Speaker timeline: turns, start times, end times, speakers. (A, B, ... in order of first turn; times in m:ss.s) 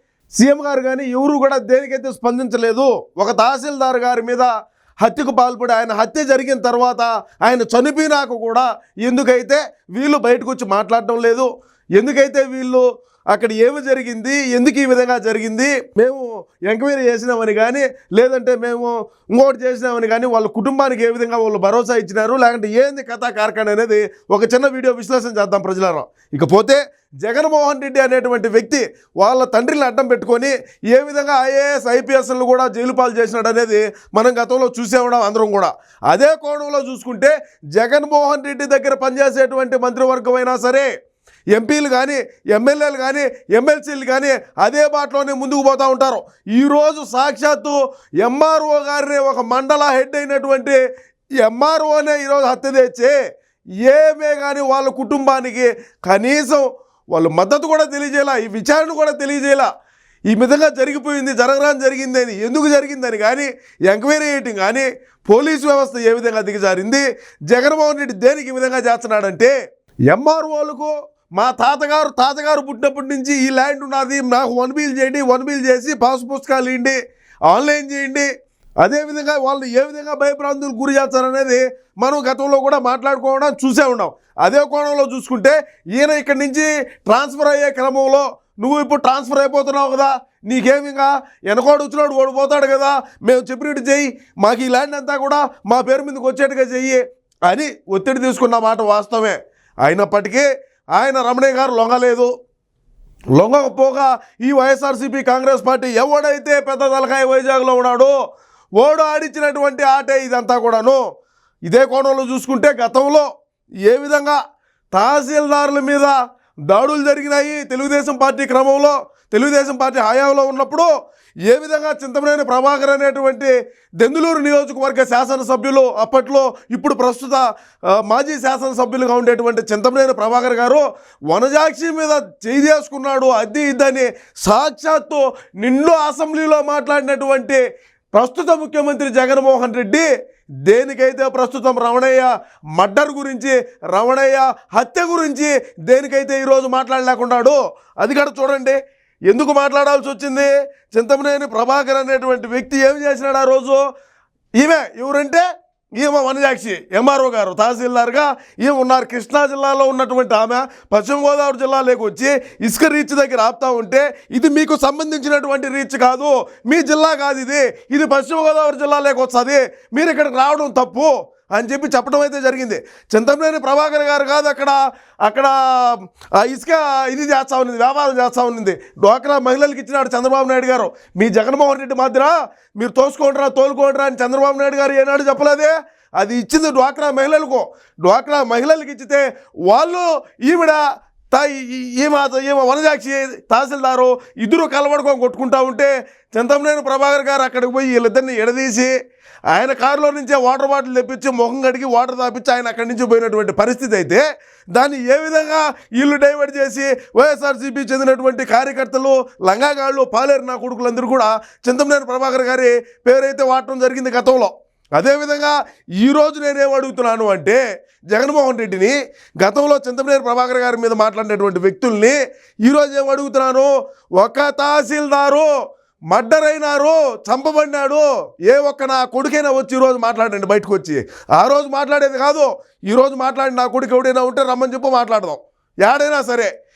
0:00.4-0:04.5 A
0:05.0-0:40.9 A
0:41.5-0:50.8 A
0:51.4-0:53.2 A
0:53.8-0:59.7 A
1:00.3-1:09.5 A
1:10.1-1:17.0 A
1:17.5-1:18.3 A
1:18.8-1:42.3 A
1:43.3-1:48.1 A
1:48.8-1:51.0 A
1:51.7-1:53.3 A
1:53.8-1:54.4 A
1:54.9-1:56.1 A
1:56.7-2:00.9 A
2:01.5-2:07.4 A
2:08.0-2:17.6 A
2:18.1-2:20.1 A
2:20.7-2:33.8 A
2:34.6-2:35.4 A
2:36.0-3:18.9 A
3:19.5-3:24.2 A
3:24.7-3:37.6 A
3:38.1-3:45.5 A
3:46.1-3:56.5 A